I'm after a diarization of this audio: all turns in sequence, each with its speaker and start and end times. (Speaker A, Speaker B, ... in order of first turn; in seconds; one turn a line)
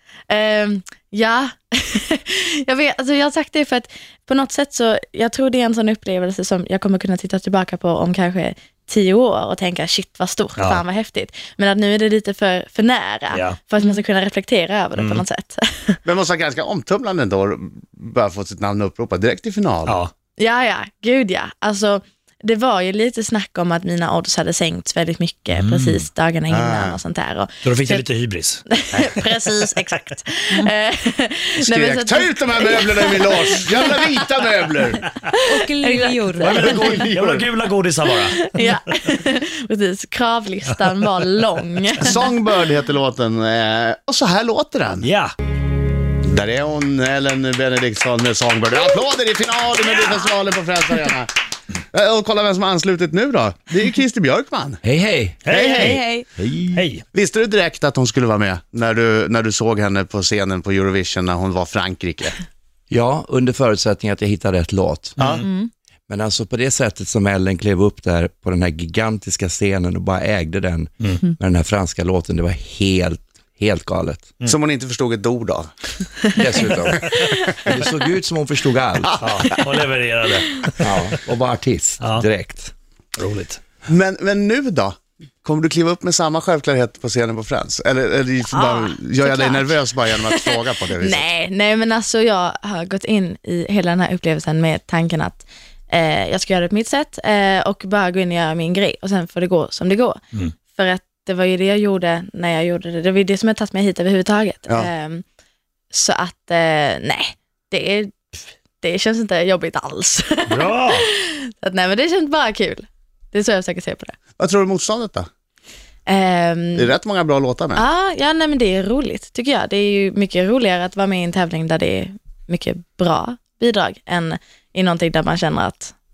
Speaker A: 0.3-16.0
Speaker B: 10.6-10.8
Speaker B: 13.3-13.6
Speaker B: 15.0-15.2
Speaker C: 16.0-20.0
Speaker B: 19.9-20.1
Speaker A: 20.4-28.1
Speaker B: 25.5-26.1
Speaker C: 26.5-27.0
Speaker B: 27.6-29.2
Speaker A: 28.7-33.9
Speaker C: 31.6-35.1
Speaker A: 35.3-36.3
Speaker D: 35.5-37.0
Speaker B: 36.4-38.7
Speaker C: 36.4-37.5
Speaker A: 38.2-42.3
Speaker C: 42.0-45.1
Speaker B: 45.0-45.3
Speaker C: 46.2-51.3
Speaker C: 51.9-54.8
Speaker E: 54.8-55.4
Speaker B: 55.4-56.0
Speaker C: 55.5-56.0
Speaker D: 55.5-56.3
Speaker E: 56.4-56.8
Speaker B: 56.7-57.0
Speaker C: 57.1-62.4
Speaker E: 62.9-65.2
Speaker B: 65.2-65.5
Speaker D: 65.4-65.7
Speaker E: 66.1-74.3
Speaker C: 74.4-75.7
Speaker E: 76.3-79.2
Speaker C: 77.1-77.7
Speaker A: 77.1-77.4
Speaker C: 79.0-79.6
Speaker B: 79.2-81.0
Speaker E: 80.8-82.7
Speaker B: 83.2-83.6
Speaker C: 83.9-91.3
Speaker A: 88.5-100.2
Speaker A: 100.7-105.2
Speaker A: 105.9-114.2
Speaker B: 110.5-111.1
Speaker C: 114.4-115.3
Speaker A: 116.1-116.9
Speaker C: 116.7-117.8
Speaker A: 117.7-125.9